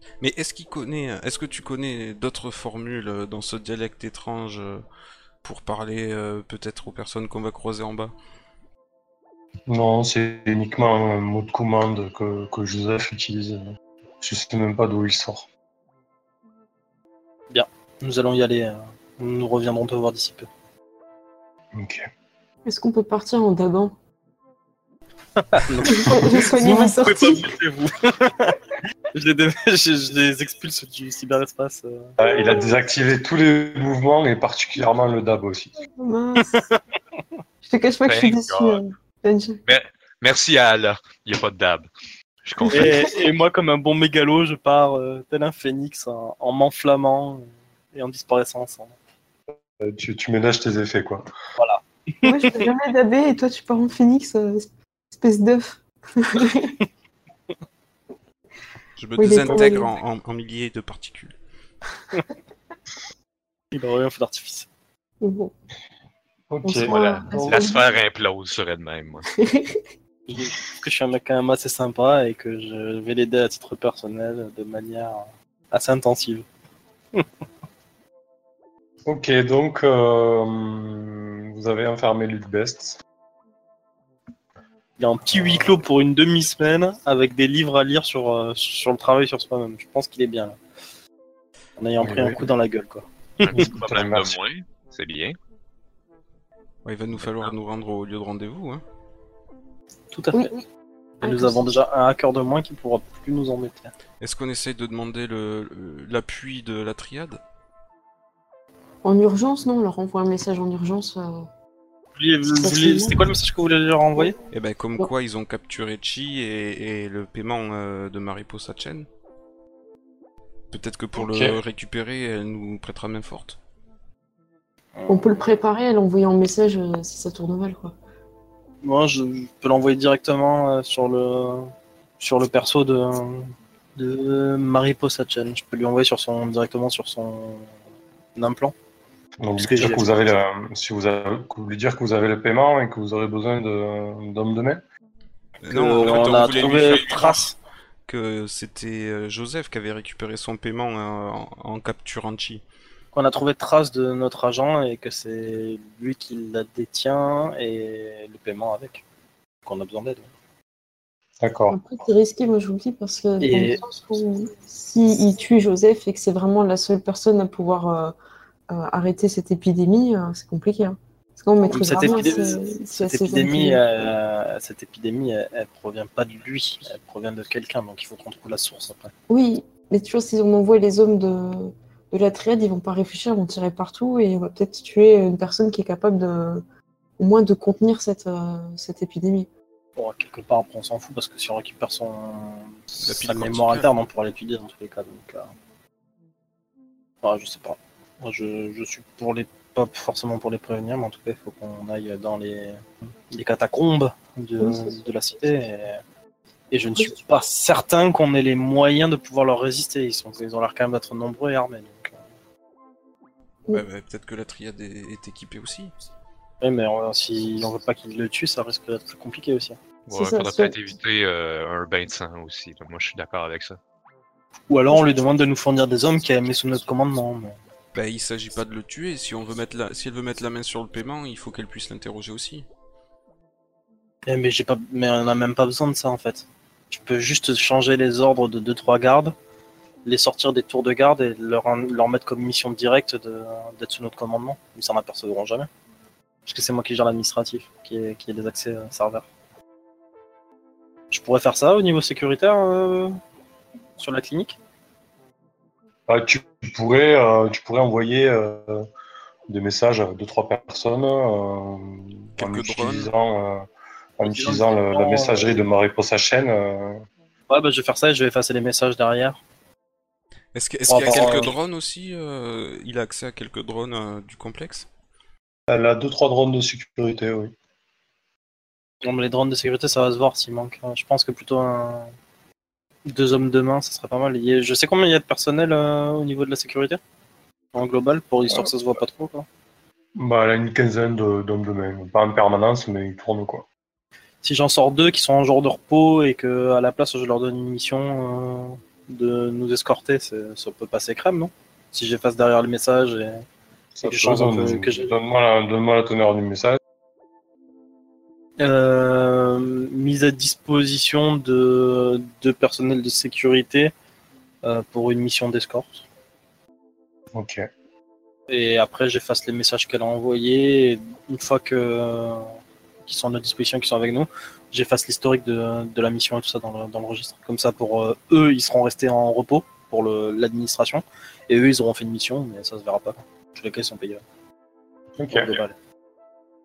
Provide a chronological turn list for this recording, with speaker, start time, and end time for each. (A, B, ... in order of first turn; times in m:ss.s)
0:00.2-0:04.8 A
0:05.4-0:08.1 A
0:09.7-0:13.7 B
0:14.2-0:15.5 B
0:17.5-0:20.5 C
0:21.7-0:22.1 B
0:22.6-0:24.0 D
0:25.4-0:28.6 C
0:25.8-0:27.4 D
0:29.1-0:32.1 C
0:32.2-0:35.8 B
0:35.9-0:36.6 D
0:36.4-0:36.8 C
0:37.6-0:39.6 D
0:38.1-0:38.8 E
0:39.6-0:41.9 E
0:42.4-0:43.0 E
0:42.6-0:43.0 D
0:42.7-0:48.9 C
0:49.8-0:51.3 B
0:51.6-0:52.6 C
0:52.2-0:56.8 D
0:59.0-1:01.4 A
0:59.2-0:59.9 D
1:03.7-1:04.7 C
1:05.2-1:05.5 D
1:06.5-1:07.7 B
1:06.6-1:07.8 D
1:06.8-1:09.2 E
1:09.4-1:09.8 D
1:10.3-1:16.4 C
1:19.1-1:23.0 B
1:25.0-1:30.6 C
1:25.3-1:25.7 B
1:31.8-1:33.7 C
1:32.0-1:32.5 B
1:33.4-1:35.4 E
1:33.5-1:34.4 B
1:36.8-1:38.8 A
1:37.2-1:37.5 E
1:40.1-1:40.5 C
1:40.3-1:40.6 D
1:41.2-1:41.8 D
1:41.2-1:43.9 C
1:44.2-1:47.4 A
1:49.0-1:51.5 D
1:52.1-1:54.4 C
1:52.5-1:53.2 D
1:54.5-1:59.1 A
2:00.7-2:03.6 A
2:01.1-2:01.6 B
2:05.0-2:05.4 C
2:05.1-2:07.9 D
2:08.8-2:17.7 C
2:18.4-2:18.7 C
2:19.4-2:24.8 B
2:19.6-2:20.2 C
2:25.6-2:27.5 A
2:25.7-2:27.5 C
2:28.1-2:32.6 A
2:33.1-2:39.0 C
2:39.6-2:40.3 C
2:41.4-2:41.8 B
2:41.7-2:48.1 D
2:43.4-2:43.8 C
2:48.7-2:53.8 D
2:51.7-2:59.1 C
2:59.3-3:06.6 D
3:07.2-3:09.5 D
3:10.0-3:15.5 C
3:13.0-3:13.9 A
3:17.2-3:26.0 C
3:24.6-3:24.9 D
3:26.7-3:32.2 C
3:33.7-3:35.9 A
3:36.6-3:39.8 C
3:40.1-3:43.8 E
3:40.1-3:40.8 D
3:44.7-3:47.6 C
3:47.9-3:52.6 A
3:54.2-3:59.4 C
4:00.0-4:05.7 C
4:06.4-4:09.2 C
4:11.1-4:13.2 C
4:14.0-4:14.6 C
4:16.1-4:18.9 B
4:19.5-4:23.6 B
4:22.4-4:23.1 A
4:24.2-4:27.1 B
4:24.2-4:25.6 C
4:27.5-4:29.4 C
4:30.6-4:34.9 A
4:30.9-4:31.5 C
4:30.9-4:31.5 B
4:35.7-4:37.5 B
4:39.0-4:42.1 C
4:43.1-4:47.0 C
4:47.7-4:49.4 C
4:50.2-4:53.6 B
4:54.4-5:03.4 C
5:04.0-5:06.8 B
5:04.0-5:05.1 C
5:08.6-5:13.9 C
5:14.6-5:16.0 C
5:17.3-5:17.7 B
5:18.5-5:22.4 C
5:23.1-5:34.2 C
5:35.2-5:35.6 B
5:35.3-5:35.8 C